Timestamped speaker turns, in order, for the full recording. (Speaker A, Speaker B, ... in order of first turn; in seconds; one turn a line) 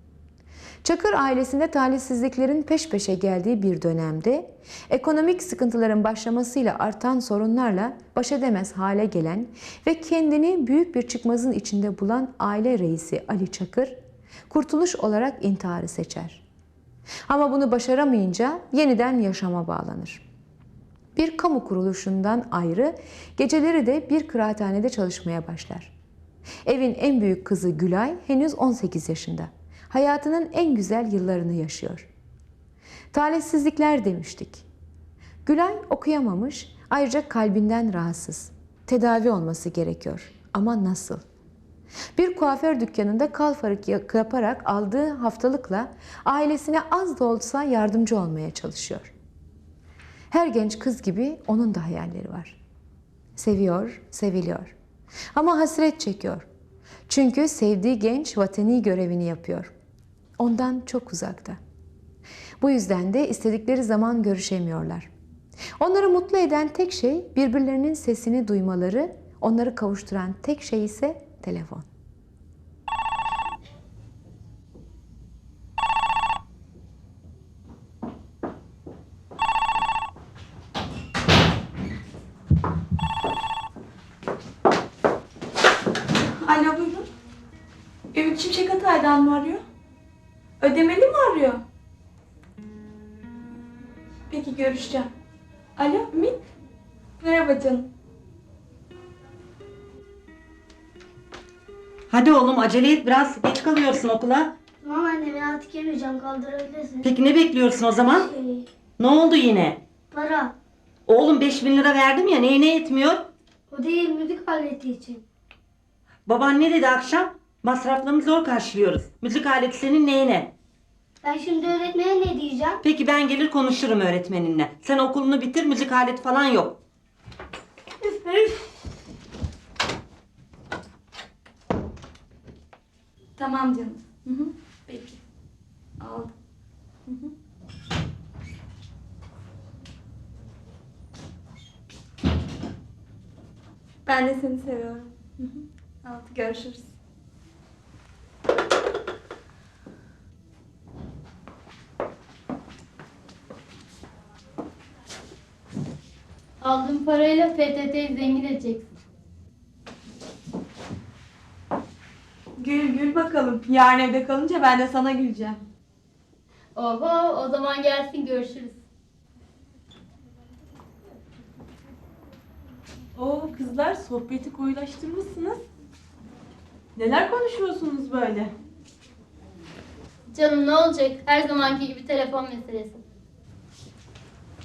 Speaker A: 0.8-14.0
Speaker A: 14.5-16.4
Speaker A: 17.3-20.2
Speaker A: 21.1-25.9
Speaker A: 26.6-32.1
Speaker A: 33.1-34.6
Speaker A: 35.5-41.2
Speaker A: 42.1-49.1
Speaker A: 50.3-52.6
Speaker A: 53.4-54.7
Speaker A: 55.3-56.5
Speaker A: 57.1-59.7
Speaker A: 60.4-61.6
Speaker A: 62.6-65.1
Speaker A: 65.8-71.9
Speaker B: 86.4-87.1
Speaker B: 88.1-89.6
Speaker B: 90.6-91.6
Speaker B: 94.3-95.1
Speaker B: 95.8-96.4
Speaker B: 97.2-97.9
Speaker C: 102.1-104.5
Speaker D: 104.8-107.1
Speaker C: 107.0-108.3
Speaker D: 108.0-108.7
Speaker C: 109.0-109.8
Speaker D: 110.1-110.5
Speaker C: 111.1-113.3
Speaker D: 113.7-115.2
Speaker C: 116.3-120.5
Speaker D: 121.2-122.8
Speaker C: 122.8-126.8
Speaker B: 133.4-134.0
Speaker B: 134.9-135.2
Speaker B: 136.0-136.3
Speaker B: 144.1-146.9
Speaker E: 156.6-158.9
Speaker B: 162.6-165.6
Speaker E: 166.8-168.8
Speaker F: 173.2-175.6
Speaker F: 177.0-178.5
Speaker E: 180.3-183.0